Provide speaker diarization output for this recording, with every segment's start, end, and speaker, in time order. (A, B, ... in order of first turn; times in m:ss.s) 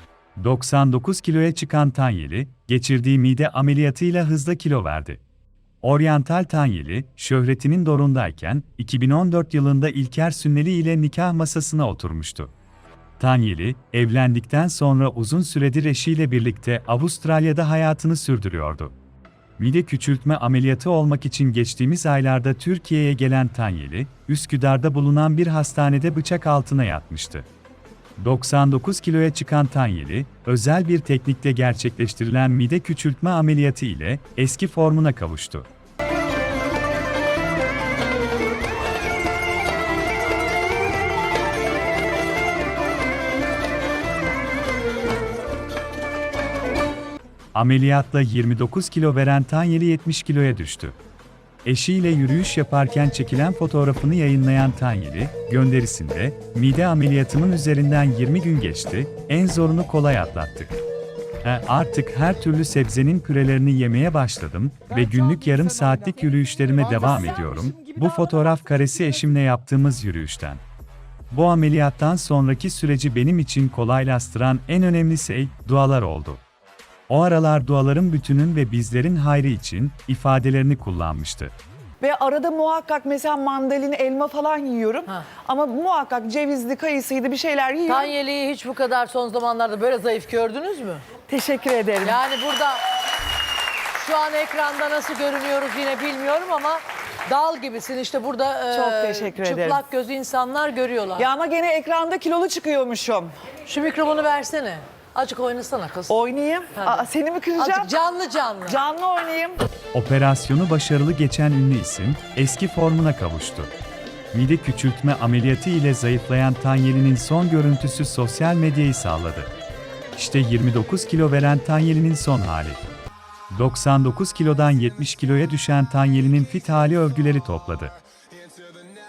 0:00.4-0:05.2 A
0:05.8-0:12.5 A
0:13.2-0:18.9 A
0:19.6-0:27.5 A
0:28.2-0:35.7 A
0:47.6-0:51.0 A
0:51.6-1:00.8 A
1:01.4-1:10.6 A
1:11.3-1:16.4 A
1:17.1-1:21.5 A
1:22.0-1:28.1 B
1:27.9-1:31.0 C
1:31.3-1:32.2 B
1:32.0-1:32.8 C
1:33.9-1:41.3 C
1:38.7-1:39.8 B
1:41.2-1:43.3 B
1:43.7-1:46.2 C
1:46.1-1:48.0 B
1:46.8-1:47.1 C
1:47.6-1:48.8 C
1:48.7-1:49.6 B
1:49.9-1:53.7 A
1:54.3-1:59.5 A
2:00.2-2:02.8 A
2:03.5-2:08.0 A